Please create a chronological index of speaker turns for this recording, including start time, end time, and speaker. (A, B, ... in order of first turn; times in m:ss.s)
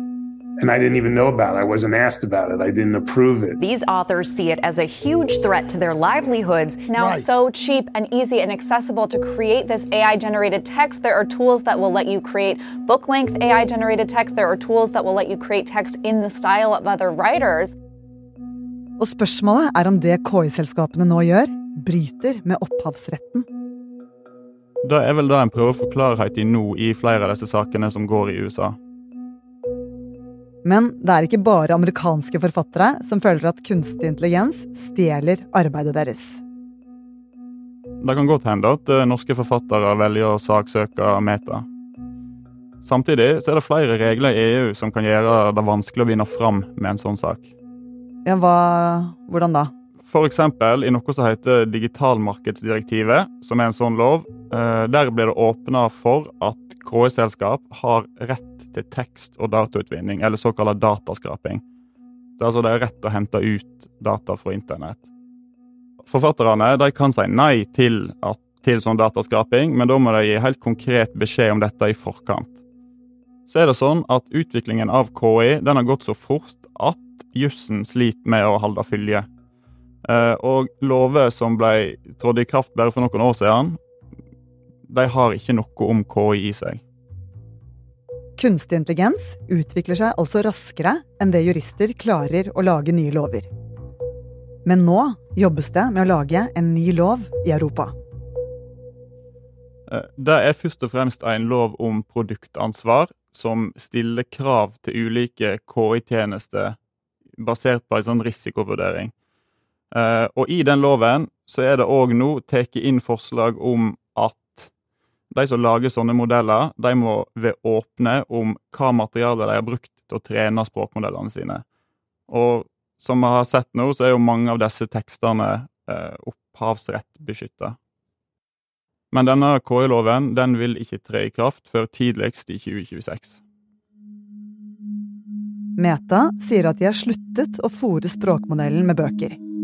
0:00.6-0:03.6 A
0:03.6-0:07.3 B
0:06.8-0:17.7 C
0:19.0-0:23.4 D
0:24.8-0:28.8 E
0:30.6-0:36.4 D
0:38.0-0:41.6 E
0:42.8-0:47.5 E
0:48.2-0:49.7 D
0:50.0-1:01.6 E
1:02.4-1:05.1 E
1:06.0-1:12.6 E
1:13.5-1:19.2 E
1:20.0-1:23.8 E
1:24.9-1:26.8 E
1:28.4-1:33.5 D
1:34.6-1:37.9 D
1:39.9-1:46.8 E
1:47.4-1:49.1 E
1:49.9-1:54.7 E
1:55.3-2:01.6 E
2:02.3-2:07.8 E
2:09.1-2:13.4 E
2:15.8-2:19.4 D